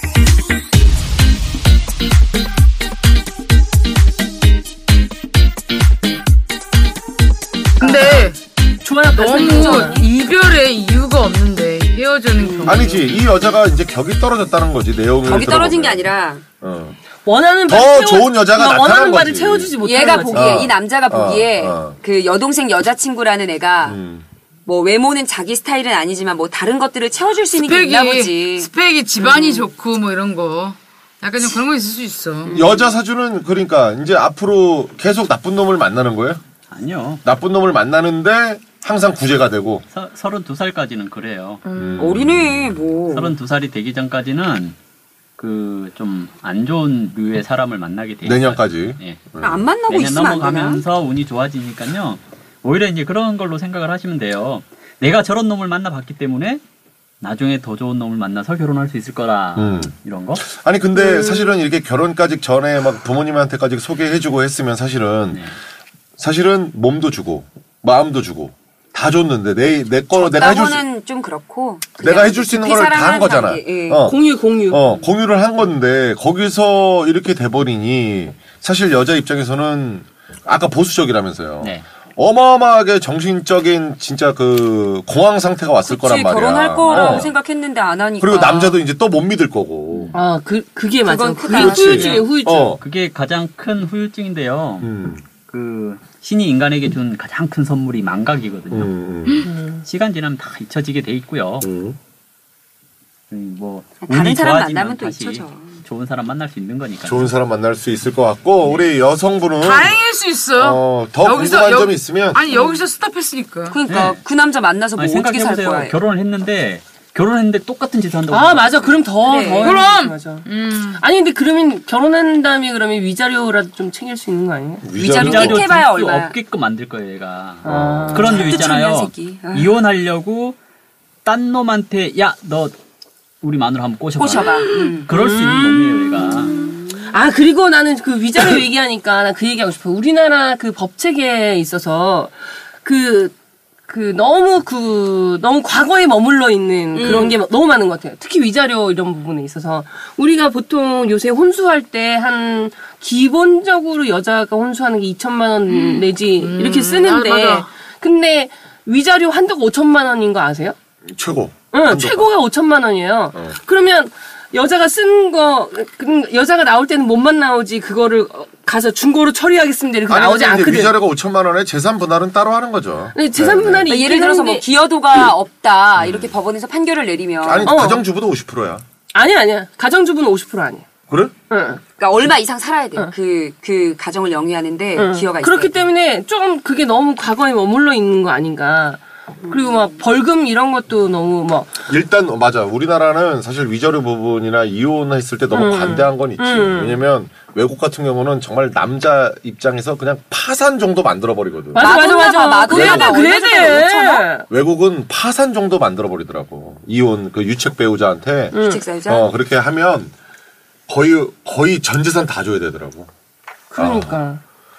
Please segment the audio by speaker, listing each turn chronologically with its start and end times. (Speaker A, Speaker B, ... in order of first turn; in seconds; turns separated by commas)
Speaker A: 7.8-8.4, Speaker B: 7.8-8.2, Speaker B: 8.8-10.1, Speaker A: 9.2-13.1, Speaker C: 9.3-10.0, Speaker C: 12.4-12.9, Speaker D: 12.6-16.1, Speaker C: 15.2-16.4, Speaker D: 16.6-16.9, Speaker B: 17.2-20.7, Speaker D: 17.7-19.8, Speaker C: 19.8-24.0, Speaker D: 20.3-22.0, Speaker D: 23.8-24.2, Speaker C: 24.6-28.7, Speaker A: 27.5-32.6, Speaker C: 29.2-29.7, Speaker C: 32.5-32.8, Speaker D: 32.5-36.4, Speaker E: 36.7-37.2, Speaker D: 37.2-39.8, Speaker E: 39.9-41.6, Speaker D: 41.7-42.9, Speaker C: 41.8-43.3, Speaker E: 43.1-44.8, Speaker E: 45.4-49.2, Speaker D: 48.2-49.6, Speaker C: 49.4-50.8, Speaker E: 49.9-56.6, Speaker E: 57.2-60.5, Speaker D: 59.5-65.4, Speaker D: 66.2-70.8, Speaker C: 70.2-74.1, Speaker D: 72.0-87.3, Speaker B: 74.0-74.8, Speaker C: 85.8-88.8, Speaker E: 86.9-87.3, Speaker D: 88.2-90.2, Speaker B: 90.1-92.7, Speaker C: 91.0-92.2, Speaker D: 91.5-92.8, Speaker E: 92.8-94.9, Speaker D: 94.8-95.2, Speaker E: 95.5-98.9, Speaker D: 98.7-99.5, Speaker B: 99.4-99.8, Speaker E: 99.8-101.7, Speaker D: 101.6-102.0, Speaker E: 103.3-107.3, Speaker C: 104.0-105.8, Speaker D: 107.0-110.0, Speaker E: 108.6-108.9, Speaker A: 109.6-113.8, Speaker D: 110.6-112.4, Speaker C: 112.5-112.8, Speaker C: 113.7-115.9, Speaker E: 113.9-114.2, Speaker E: 115.0-119.0, Speaker B: 118.3-120.5, Speaker C: 119.2-119.8, Speaker A: 119.5-121.0, Speaker B: 121.0-124.8, Speaker D: 124.8-125.7, Speaker C: 125.0-126.4, Speaker E: 125.0-130.6, Speaker B: 127.6-128.6, Speaker D: 127.6-128.3, Speaker C: 128.3-129.7, Speaker E: 131.2-132.7, Speaker E: 133.4-136.5, Speaker C: 134.2-135.1, Speaker A: 134.6-134.9, Speaker B: 135.1-143.3, Speaker C: 136.2-137.1, Speaker B: 143.9-160.8, Speaker C: 146.9-147.4, Speaker A: 155.9-157.7, Speaker D: 161.1-162.3, Speaker B: 161.7-170.9, Speaker D: 170.1-173.9, Speaker B: 173.1-174.7, Speaker C: 173.8-177.7, Speaker D: 176.0-176.3, Speaker D: 177.4-178.8, Speaker B: 177.6-178.0, Speaker B: 179.1-180.9, Speaker D: 181.1-181.3, Speaker B: 181.5-181.8, Speaker C: 182.0-185.8, Speaker B: 184.9-191.7, Speaker C: 189.5-189.8, Speaker D: 191.9-202.0, Speaker B: 195.5-197.0, Speaker B: 201.7-204.4, Speaker C: 201.8-204.2, Speaker D: 202.7-203.2, Speaker D: 204.5-210.1, Speaker B: 208.5-208.8, Speaker C: 208.5-209.3, Speaker D: 210.9-213.1, Speaker B: 213.7-214.4, Speaker D: 213.8-214.2